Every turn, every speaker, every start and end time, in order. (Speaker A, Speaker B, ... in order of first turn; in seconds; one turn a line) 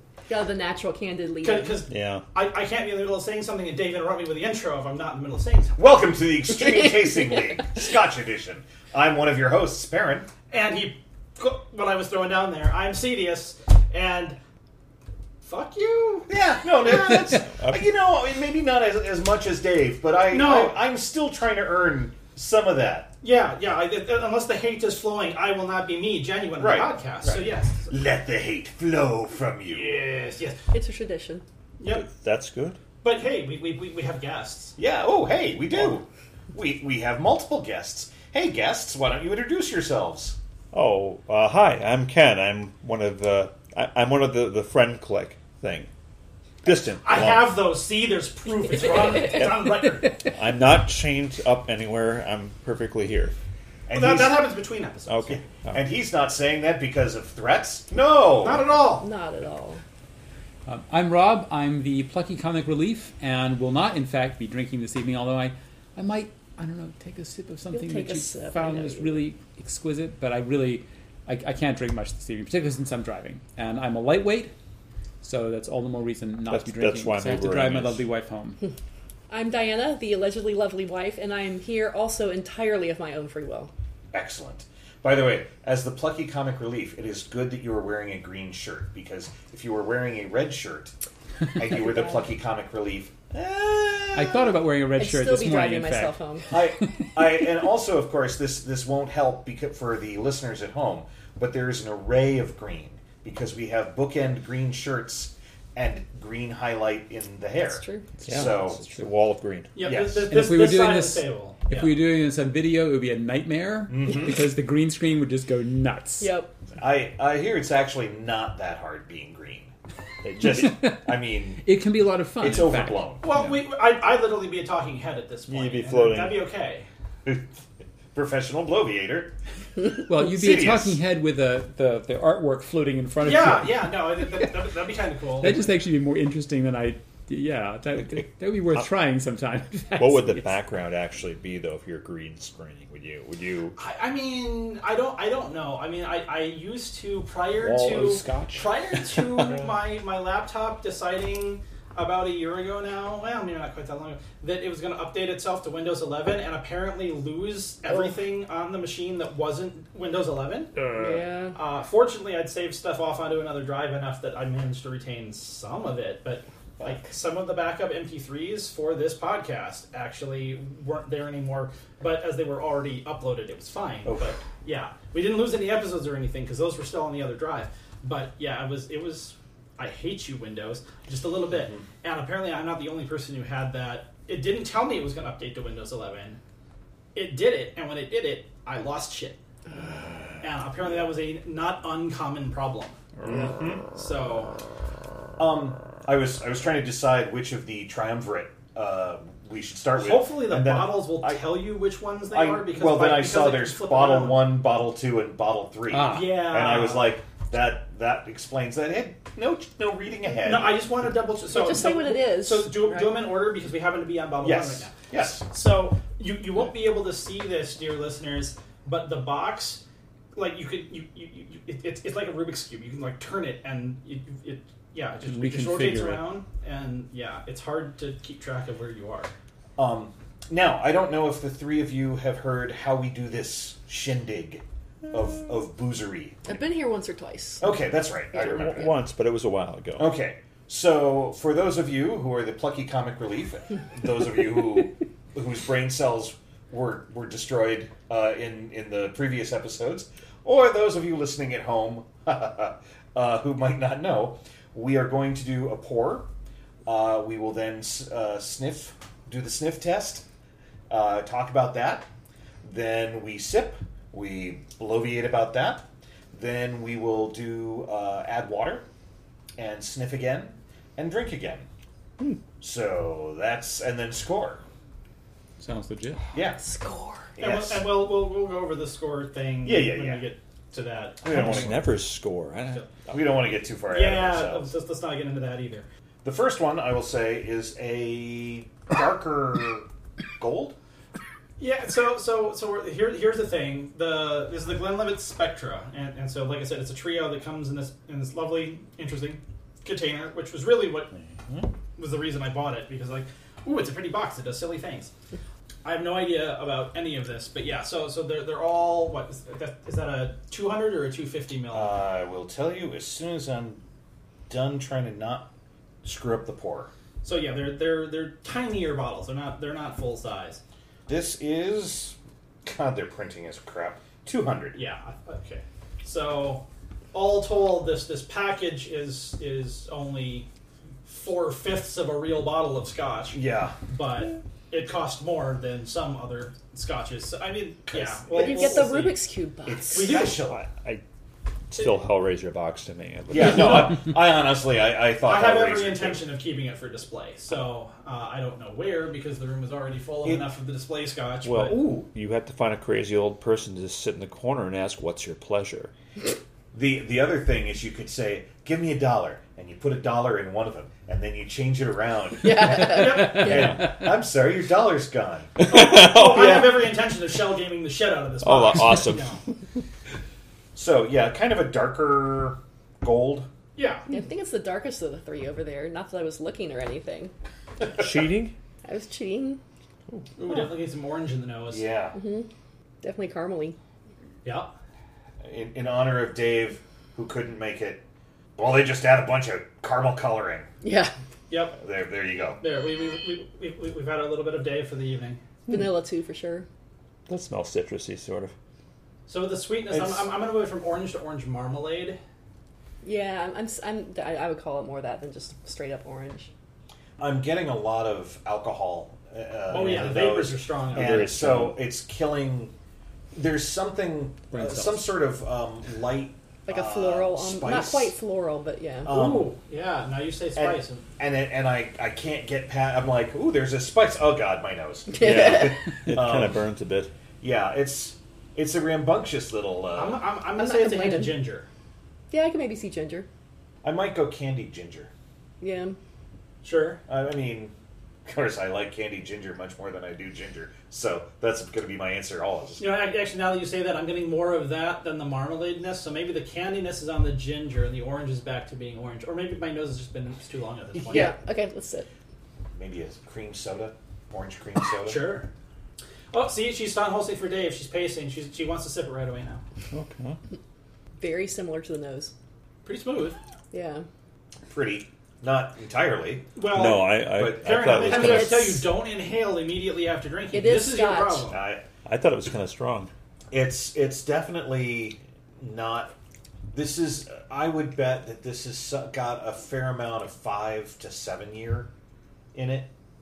Speaker A: 0.3-1.8
Speaker B: 1.4-5.8
Speaker C: 1.9-2.2
Speaker D: 5.8-10.3
Speaker B: 10.5-14.4
Speaker B: 15.4-16.3
Speaker D: 16.3-23.1
Speaker C: 17.5-17.9
Speaker B: 20.3-20.8
Speaker B: 23.2-27.9
Speaker D: 26.6-30.0
Speaker B: 29.7-30.6
Speaker A: 30.7-31.4
Speaker B: 31.8-32.1
Speaker C: 31.9-32.8
Speaker B: 33.0-34.8
Speaker D: 34.8-40.4
Speaker C: 40.7-45.9
Speaker C: 46.6-47.5
Speaker B: 46.9-50.3
Speaker A: 48.8-49.4
Speaker C: 50.2-53.4
Speaker D: 53.9-54.5
Speaker B: 53.9-55.4
Speaker C: 55.1-55.8
Speaker D: 55.7-58.7
Speaker B: 58.4-59.1
Speaker A: 58.9-59.8
Speaker E: 60.7-74.5
Speaker A: 67.7-69.2
Speaker E: 75.2-78.6
Speaker C: 76.5-78.1
Speaker A: 79.3-83.7
Speaker D: 84.1-91.0
Speaker D: 91.5-94.6
Speaker A: 91.8-92.1
Speaker E: 94.1-96.2
Speaker A: 95.0-96.5
Speaker D: 96.5-108.8
Speaker A: 107.6-108.1
Speaker E: 108.2-109.1
Speaker C: 108.3-109.7
Speaker B: 109.8-112.0
Speaker D: 109.8-110.3
Speaker E: 110.3-116.3
Speaker D: 113.9-114.5
Speaker A: 116.2-116.5
Speaker D: 116.8-119.7
Speaker D: 120.3-121.6
Speaker E: 120.4-123.5
Speaker D: 122.4-123.2
Speaker B: 123.2-126.9
Speaker C: 125.5-126.4
Speaker D: 127.3-127.6
Speaker D: 128.1-129.3
Speaker E: 130.1-134.5
Speaker D: 130.1-131.0
Speaker B: 133.2-135.7
Speaker E: 135.4-140.6
Speaker C: 140.0-143.8
Speaker B: 143.8-160.8
Speaker C: 147.6-149.5
Speaker D: 160.8-161.2
Speaker A: 161.0-161.6
Speaker B: 161.6-186.4
Speaker D: 174.1-174.4
Speaker D: 181.6-181.8
Speaker B: 187.2-189.4
Speaker B: 190.4-193.0
Speaker C: 193.2-193.4
Speaker D: 193.2-193.8
Speaker B: 193.9-194.6
Speaker D: 195.4-201.5
Speaker B: 200.0-204.5
Speaker D: 202.3-210.9
Speaker E: 205.9-206.2
Speaker B: 206.0-207.1
Speaker B: 210.4-219.8
Speaker A: 211.5-213.1
Speaker D: 214.4-215.5
Speaker B: 220.3-229.3
Speaker E: 225.2-226.3
Speaker D: 229.8-236.6
Speaker A: 236.4-237.7
Speaker D: 237.6-239.0
Speaker C: 238.3-240.1
Speaker D: 240.0-256.3
Speaker D: 256.9-260.2
Speaker D: 260.9-262.1
Speaker D: 262.6-268.9
Speaker D: 269.6-271.7
Speaker D: 272.6-274.6
Speaker E: 275.6-276.3
Speaker D: 276.3-276.6
Speaker A: 276.6-277.3
Speaker D: 277.4-278.0
Speaker B: 277.4-281.7
Speaker D: 279.6-280.3
Speaker D: 281.2-281.9
Speaker C: 281.3-283.3
Speaker D: 283.1-284.7
Speaker B: 283.9-285.9
Speaker D: 286.2-289.9
Speaker D: 290.4-290.8
Speaker B: 291.6-301.1
Speaker C: 301.1-301.7
Speaker B: 302.0-305.1
Speaker B: 305.9-312.0
Speaker D: 311.7-313.8
Speaker D: 314.5-315.5
Speaker D: 316.0-316.9
Speaker B: 317.2-320.6
Speaker D: 321.1-324.8
Speaker B: 324.7-330.5
Speaker B: 331.1-339.2
Speaker D: 333.3-333.8
Speaker D: 337.9-338.9
Speaker A: 338.3-340.2
Speaker D: 339.7-340.7
Speaker B: 339.9-340.4
Speaker C: 340.5-341.0
Speaker C: 341.7-344.0
Speaker D: 343.3-346.2
Speaker B: 345.2-351.8
Speaker C: 351.4-355.9
Speaker D: 351.6-352.1
Speaker D: 356.7-365.7
Speaker A: 362.4-363.8
Speaker B: 362.7-363.6
Speaker C: 363.4-363.9
Speaker C: 365.6-366.8
Speaker B: 365.7-369.4
Speaker C: 368.4-369.3
Speaker D: 370.8-373.5
Speaker B: 373.8-374.1
Speaker A: 374.1-377.3
Speaker C: 377.9-378.5
Speaker A: 378.9-379.6
Speaker B: 380.4-381.9
Speaker D: 381.7-382.2
Speaker A: 382.1-382.5
Speaker A: 383.0-383.8
Speaker B: 384.4-384.7
Speaker D: 385.4-388.0
Speaker D: 388.6-390.7
Speaker A: 390.8-391.1
Speaker B: 391.5-391.8
Speaker D: 391.8-392.6
Speaker B: 392.6-395.4
Speaker A: 395.7-396.7
Speaker C: 397.3-398.5
Speaker B: 399.3-402.2
Speaker D: 399.9-400.3
Speaker A: 403.0-406.5
Speaker D: 407.2-412.7
Speaker B: 409.7-411.4
Speaker C: 410.9-411.8
Speaker D: 413.3-418.1
Speaker A: 416.7-419.1
Speaker D: 419.1-419.6
Speaker B: 419.1-421.0
Speaker D: 420.6-426.6
Speaker A: 425.1-425.8
Speaker C: 425.2-427.1
Speaker D: 427.4-430.2
Speaker B: 429.9-431.7
Speaker A: 430.6-431.4
Speaker A: 432.3-433.3
Speaker D: 433.8-435.1
Speaker A: 435.6-436.0
Speaker B: 436.6-437.0
Speaker D: 437.1-437.7
Speaker D: 438.3-443.0
Speaker B: 442.8-451.4
Speaker D: 451.0-451.3
Speaker A: 451.1-452.1
Speaker D: 452.7-455.4
Speaker B: 455.0-455.5
Speaker B: 456.3-459.6
Speaker C: 459.9-460.4
Speaker A: 461.2-462.3
Speaker B: 462.9-463.4
Speaker A: 463.7-464.1
Speaker D: 464.7-468.5
Speaker B: 466.6-471.6
Speaker C: 466.7-468.7
Speaker A: 468.1-468.8
Speaker A: 470.5-471.5
Speaker D: 471.5-471.9
Speaker C: 472.1-473.1
Speaker D: 473.5-476.1
Speaker D: 476.7-481.9
Speaker D: 482.5-482.9